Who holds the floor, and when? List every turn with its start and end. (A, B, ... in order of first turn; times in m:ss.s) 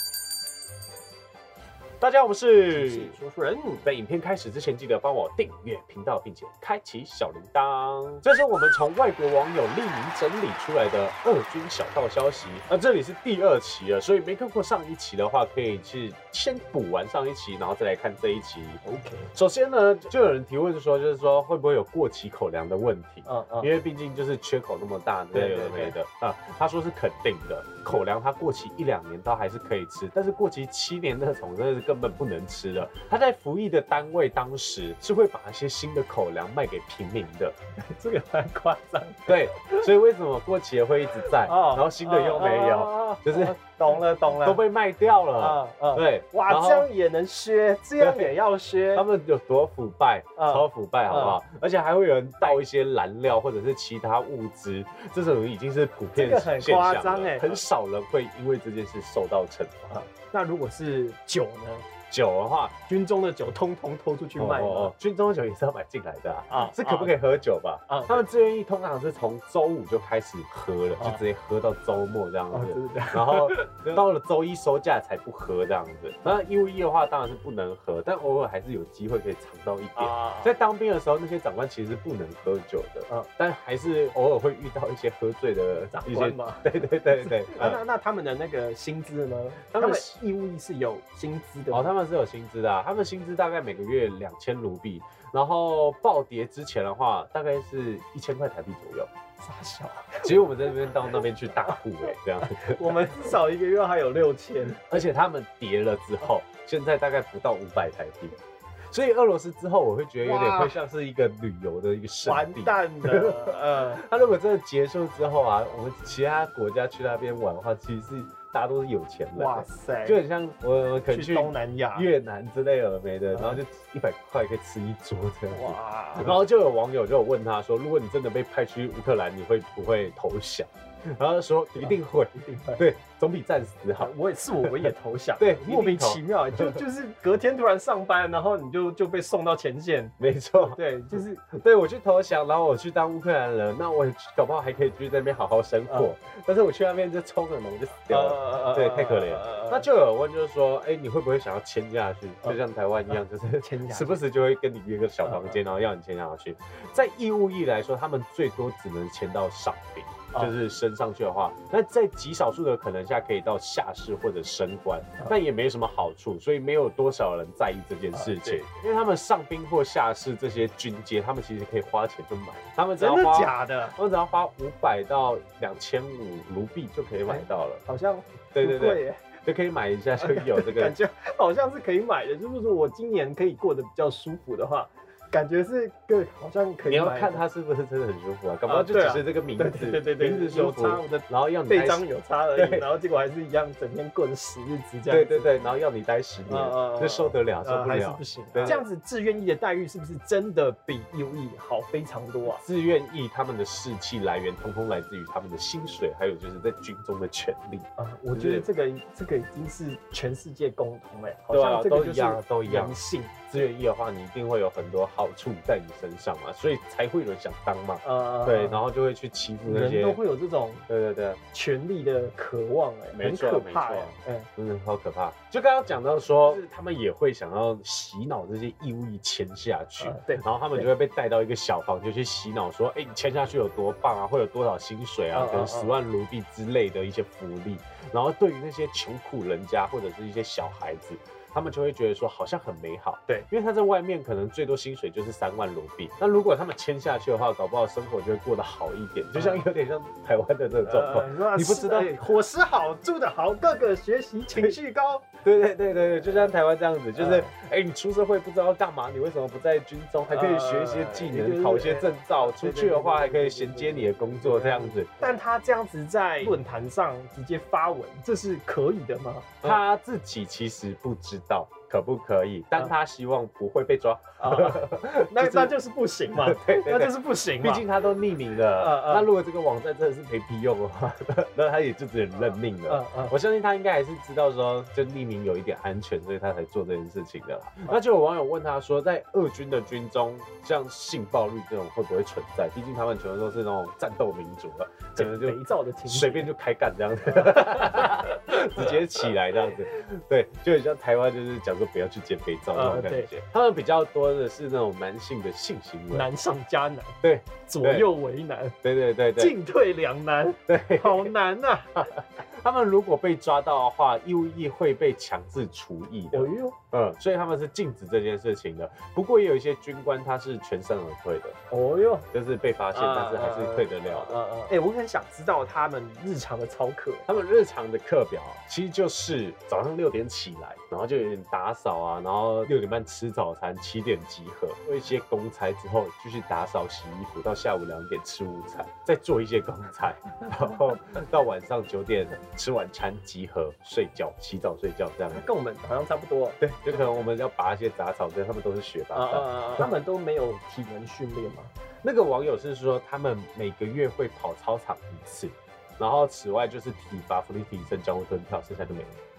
0:02.0-0:03.2 A
0:02.7-0:03.9 B
0:03.8-0:18.8 A
0:18.8-0:19.3 B
0:19.3-0:37.6 A
0:23.2-0:23.7 B
0:25.3-0:26.0 B
0:37.8-0:39.9 B
0:39.3-0:46.9 A
0:41.2-0:44.6 B
0:45.3-0:49.0 B
0:48.0-0:48.4 A
0:48.9-1:00.0 A
0:50.4-0:51.4 B
0:56.1-0:57.6 B
0:59.9-1:01.9 B
1:02.1-1:02.7 A
1:02.9-1:04.9 B
1:04.4-1:27.8 A
1:06.5-1:07.1 B
1:07.9-1:08.2 B
1:12.5-1:13.7 B
1:20.0-1:20.5 B
1:25.9-1:31.9 B
1:29.7-1:30.2 A
1:31.7-1:39.1 A
1:39.4-1:41.8 B
1:40.2-1:43.2 A
1:42.4-1:45.0 B
1:44.9-1:48.4 A
1:48.9-2:14.7 A
1:50.2-1:50.8 B
1:52.2-1:54.0 B
1:59.3-2:00.2 B
2:01.1-2:02.1 B
2:03.3-2:03.6 B
2:05.5-2:06.4 B
2:11.8-2:12.8 B
2:14.0-2:21.4 B
2:15.4-2:16.8 A
2:20.2-2:20.8 A
2:21.5-2:57.8 A
2:28.1-2:29.8 B
2:33.6-2:34.2 B
2:35.2-2:35.6 B
2:48.1-2:48.6 B
2:53.0-2:54.0 B
2:57.2-2:59.3 B
2:58.5-3:00.9 A
3:00.2-3:07.4 B
3:06.8-3:12.9 A
3:08.6-3:15.6 B
3:15.1-3:18.8 A
3:16.4-3:22.6 B
3:22.5-3:28.7 A
3:28.0-3:33.3 B
3:31.5-3:33.0 A
3:33.5-3:40.2 A
3:38.0-3:38.8 B
3:39.6-3:40.8 B
3:40.9-3:41.4 A
3:41.5-3:44.5 B
3:43.1-4:12.1 A
3:50.0-3:50.9 B
3:55.3-3:56.0 B
4:09.3-4:09.7 B
4:10.8-4:15.3 B
4:15.4-4:25.1 A
4:17.1-4:17.5 B
4:20.2-4:29.8 B
4:29.6-4:35.7 A
4:34.4-4:37.9 B
4:36.4-5:06.3 A
4:38.7-4:39.3 B
4:42.8-4:43.3 B
4:55.2-4:56.5 B
4:57.4-4:58.9 B
5:02.7-5:03.3 B
5:06.1-5:08.8 B
5:07.2-5:08.1 A
5:08.8-5:09.6 A
5:09.4-5:12.1 B
5:10.7-5:11.3 A
5:12.0-5:21.6 A
5:16.3-5:16.8 B
5:21.7-5:22.3 B
5:22.3-5:24.4 A
5:22.9-5:27.3 B
5:27.3-5:45.5 A
5:45.3-5:47.3 B
5:46.6-5:49.9 A
5:49.1-5:51.7 B
5:52.0-5:59.2 A